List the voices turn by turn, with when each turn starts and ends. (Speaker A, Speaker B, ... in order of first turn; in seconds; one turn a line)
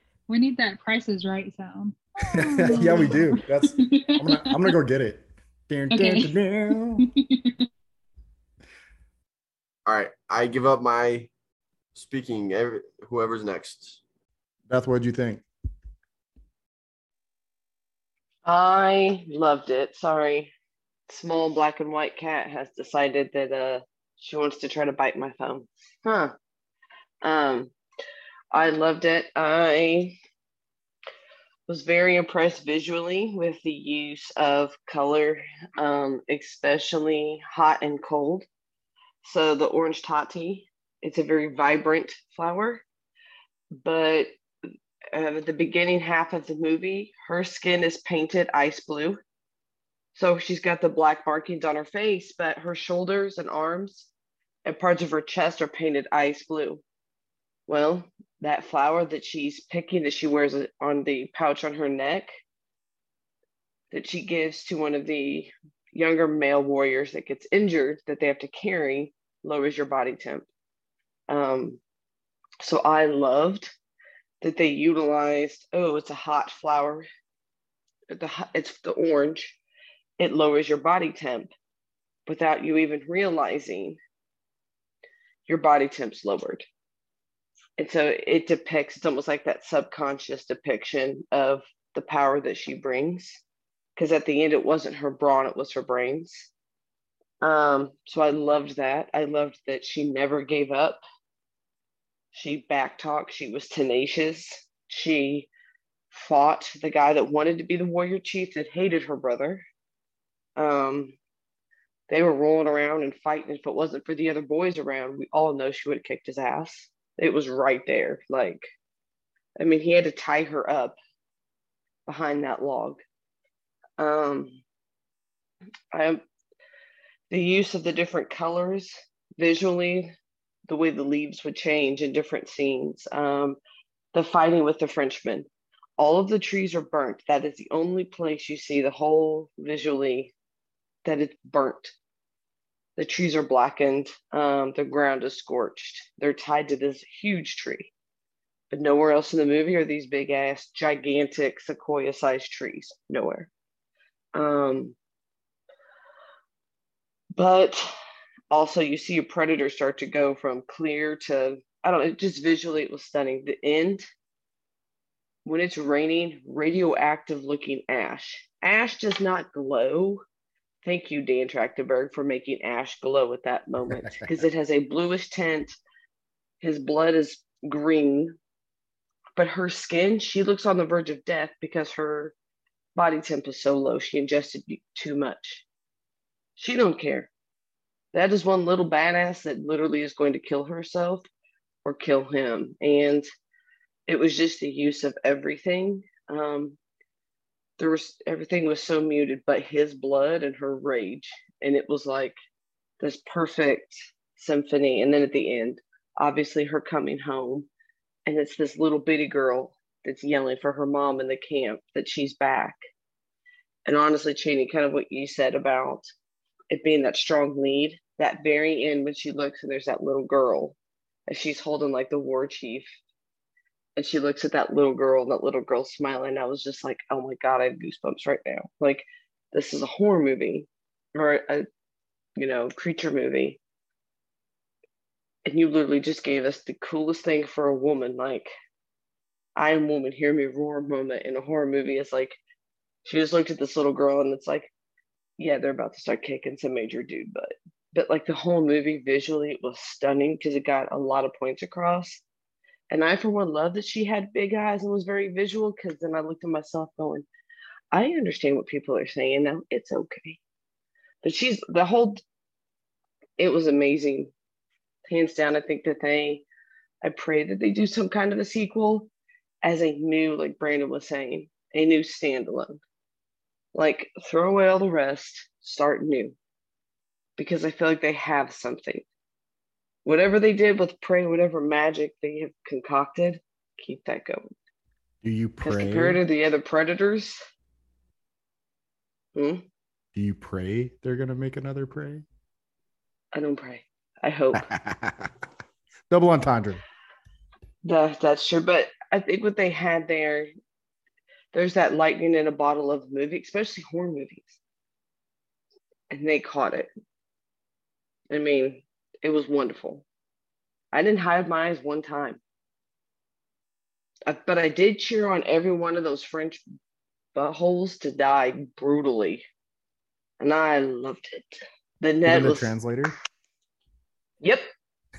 Speaker A: 0.3-4.8
Speaker B: 2.3-7.1
Speaker C: 2.7-3.0
Speaker A: 5.9-6.3
Speaker A: 7.0-7.7
Speaker C: 9.9-11.3
Speaker C: 11.9-14.0
Speaker B: 14.7-15.4
Speaker D: 18.4-20.5
Speaker D: 21.1-26.3
Speaker D: 27.2-27.7
Speaker D: 28.5-30.2
Speaker D: 31.7-38.5
Speaker D: 39.2-42.8
Speaker D: 43.8-44.3
Speaker D: 45.1-49.2
Speaker D: 50.1-54.1
Speaker D: 54.6-56.8
Speaker D: 57.7-62.3
Speaker D: 63.9-70.5
Speaker D: 71.3-71.8
Speaker D: 72.6-73.7
Speaker D: 74.4-77.1
Speaker D: 78.1-79.6
Speaker D: 80.2-81.5
Speaker D: 82.3-84.0
Speaker D: 85.5-86.7
Speaker D: 87.8-93.4
Speaker D: 94.0-96.5
Speaker D: 97.4-101.0
Speaker D: 102.3-105.5
Speaker D: 106.1-109.7
Speaker D: 110.6-111.2
Speaker D: 112.1-118.7
Speaker D: 119.6-121.0
Speaker D: 122.1-123.0
Speaker D: 124.0-124.6
Speaker D: 125.9-126.2
Speaker D: 127.3-130.1
Speaker D: 130.7-133.6
Speaker D: 134.1-140.3
Speaker D: 141.1-141.9
Speaker D: 143.0-147.9
Speaker D: 148.7-153.5
Speaker D: 154.3-154.9
Speaker D: 157.3-157.9
Speaker D: 158.5-164.1
Speaker D: 165.4-170.2
Speaker D: 170.8-175.8
Speaker B: 173.9-174.4
Speaker D: 176.6-178.4
Speaker D: 179.4-182.3
Speaker D: 182.9-185.6
Speaker D: 186.6-187.3
Speaker D: 188.1-191.3
Speaker D: 191.8-193.3
Speaker D: 194.1-196.8
Speaker D: 197.8-202.4
Speaker D: 203.0-207.7
Speaker D: 208.3-212.8
Speaker D: 213.9-216.1
Speaker D: 216.7-220.8
Speaker D: 221.3-222.9
Speaker D: 224.0-231.7
Speaker D: 232.4-233.6
Speaker D: 235.5-238.5
Speaker D: 239.6-242.4
Speaker D: 243.1-244.7
Speaker D: 245.4-252.2
Speaker D: 252.9-257.3
Speaker D: 257.9-260.4
Speaker D: 261.2-262.2
Speaker D: 263.4-264.3
Speaker D: 265.1-266.4
Speaker D: 267.0-269.1
Speaker D: 269.6-272.8
Speaker D: 273.7-276.4
Speaker D: 277.4-279.1
Speaker D: 280.1-284.5
Speaker B: 285.2-286.2
Speaker D: 285.6-287.4
Speaker D: 289.4-289.6
Speaker B: 290.1-292.2
Speaker D: 293.3-294.7
Speaker B: 294.6-295.3
Speaker B: 296.1-296.8
Speaker D: 297.8-300.5
Speaker D: 301.5-304.6
Speaker D: 306.1-306.9
Speaker D: 308.3-310.0
Speaker D: 310.9-312.4
Speaker D: 314.3-316.6
Speaker D: 317.4-319.5
Speaker D: 320.4-322.7
Speaker B: 322.2-323.1
Speaker D: 324.4-324.7